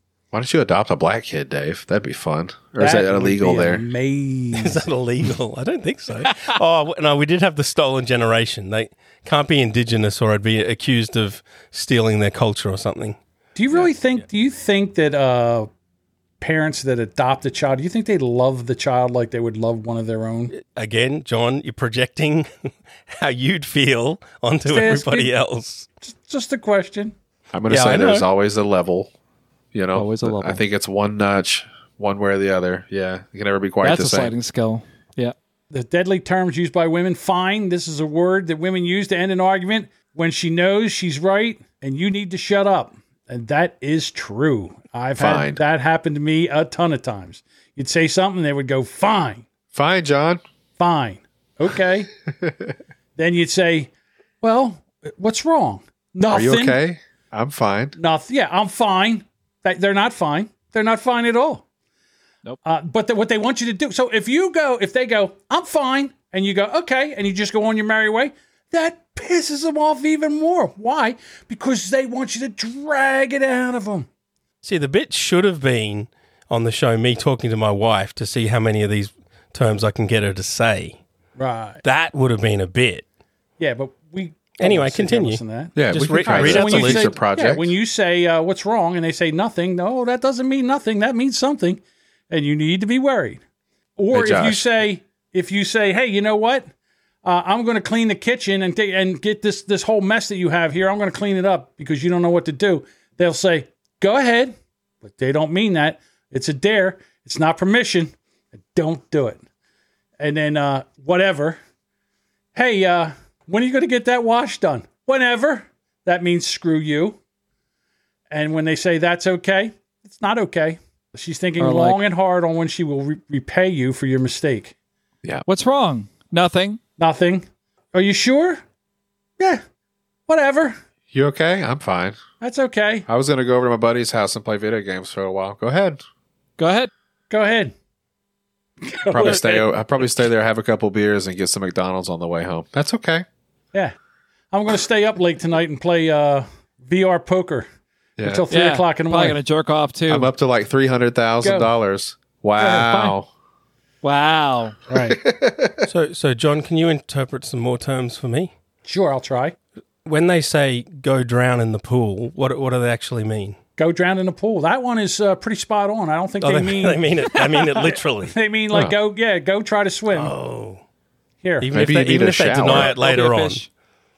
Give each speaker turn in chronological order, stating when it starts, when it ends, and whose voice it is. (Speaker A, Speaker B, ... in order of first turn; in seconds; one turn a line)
Speaker A: 0.3-3.8
Speaker B: 2.8-4.8
Speaker C: 4.5-13.2
Speaker B: 13.5-15.7
Speaker C: 13.7-14.2
Speaker B: 16.4-20.5
Speaker C: 20.5-25.9
Speaker B: 24.6-25.3
Speaker B: 26.0-27.1
Speaker A: 27.5-29.1
Speaker C: 27.7-28.3
Speaker A: 29.7-34.3
Speaker D: 29.9-30.6
Speaker D: 33.8-35.3
Speaker B: 35.7-49.4
Speaker A: 45.2-45.6
Speaker A: 49.7-50.4
Speaker B: 50.8-52.1
Speaker A: 52.4-52.7
Speaker B: 53.2-53.9
Speaker B: 54.4-56.8
Speaker A: 56.3-58.0
Speaker B: 58.0-61.6
Speaker B: 62.6-74.1
Speaker C: 74.6-81.0
Speaker B: 81.4-81.8
Speaker C: 81.8-83.0
Speaker B: 83.6-93.4
Speaker C: 84.6-87.1
Speaker A: 85.7-87.7
Speaker B: 94.0-96.7
Speaker A: 94.1-94.7
Speaker B: 97.2-108.1
Speaker B: 108.7-109.4
Speaker B: 110.2-111.6
Speaker B: 112.5-117.2
Speaker B: 118.3-124.7
Speaker D: 121.6-122.0
Speaker D: 125.5-126.8
Speaker B: 127.0-128.6
Speaker B: 130.3-130.8
Speaker A: 131.1-132.2
Speaker B: 132.4-133.1
Speaker A: 133.1-136.0
Speaker D: 136.6-136.9
Speaker B: 137.3-137.7
Speaker B: 138.8-139.4
Speaker A: 139.1-143.2
Speaker D: 139.2-139.7
Speaker B: 144.5-147.7
Speaker A: 148.2-148.4
Speaker B: 148.2-149.4
Speaker D: 148.5-150.3
Speaker A: 150.1-153.3
Speaker B: 151.4-151.7
Speaker B: 152.6-153.1
Speaker D: 154.0-154.8
Speaker B: 154.9-155.2
Speaker A: 154.9-155.9
Speaker C: 155.9-158.5
Speaker B: 158.8-159.6
Speaker C: 160.0-163.6
Speaker B: 163.8-170.3
Speaker C: 166.4-168.3
Speaker C: 170.1-170.8
Speaker B: 171.4-171.7
Speaker C: 171.6-173.6
Speaker A: 171.7-172.9
Speaker D: 172.6-173.7